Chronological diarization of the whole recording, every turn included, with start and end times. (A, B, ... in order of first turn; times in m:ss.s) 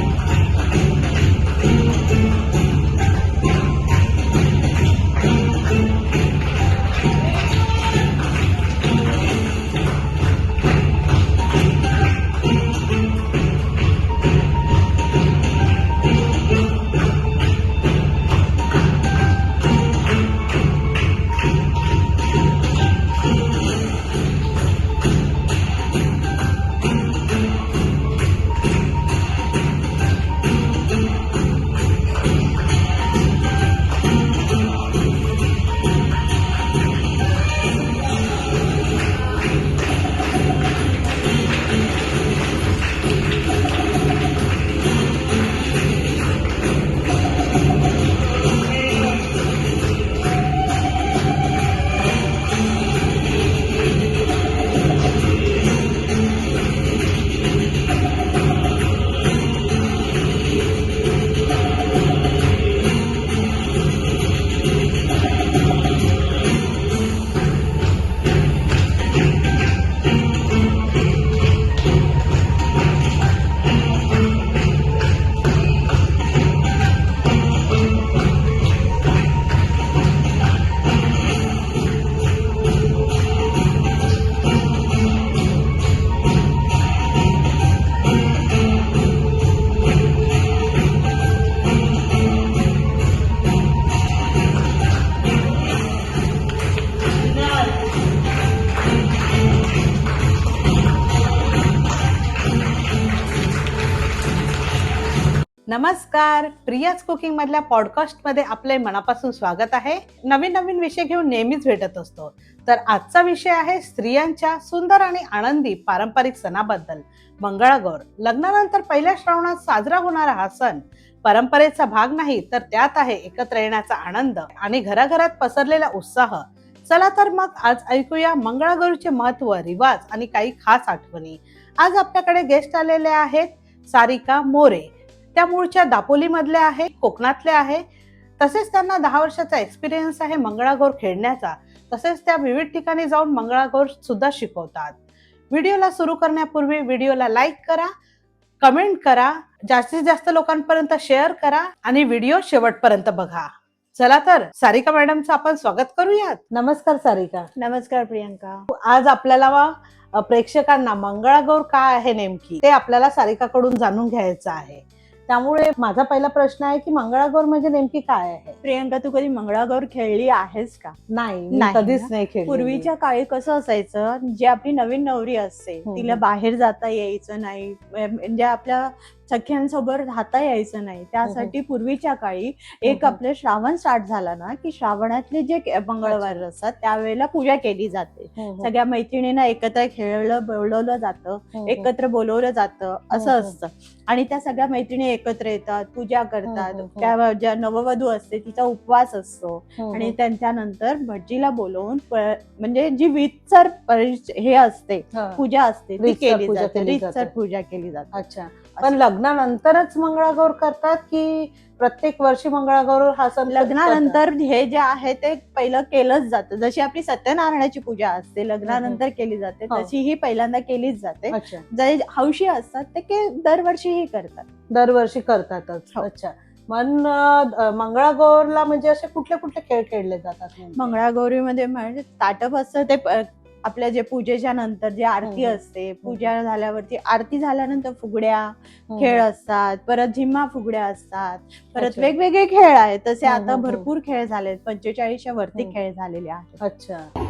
1:45.7-2:17.8 A
2:18.4-2:25.0 A
2:25.5-2:27.9 A
2:28.6-2:37.5 A
2:37.6-2:38.6 B
2:38.7-2:48.6 A
2:48.6-2:51.0 B
2:51.1-2:52.9 A
2:51.5-3:28.1 B
2:55.8-2:56.2 A
3:01.2-3:01.5 A
3:02.9-3:03.2 A
3:06.0-3:06.4 A
3:08.4-3:08.7 A
3:11.6-3:11.9 A
3:13.1-3:13.5 A
3:16.4-3:17.1 A
3:19.8-3:20.1 A
3:25.1-3:25.4 A
3:26.0-3:27.3 A
3:28.1-3:34.2 A
3:33.5-3:44.5 B
3:38.6-3:39.0 A
3:41.3-3:41.6 A
3:44.7-3:50.9 A
3:50.8-4:06.6 B
3:55.2-3:56.3 A
3:58.9-3:59.2 A
4:01.8-4:02.1 A
4:03.2-4:03.9 A
4:06.6-4:07.1 A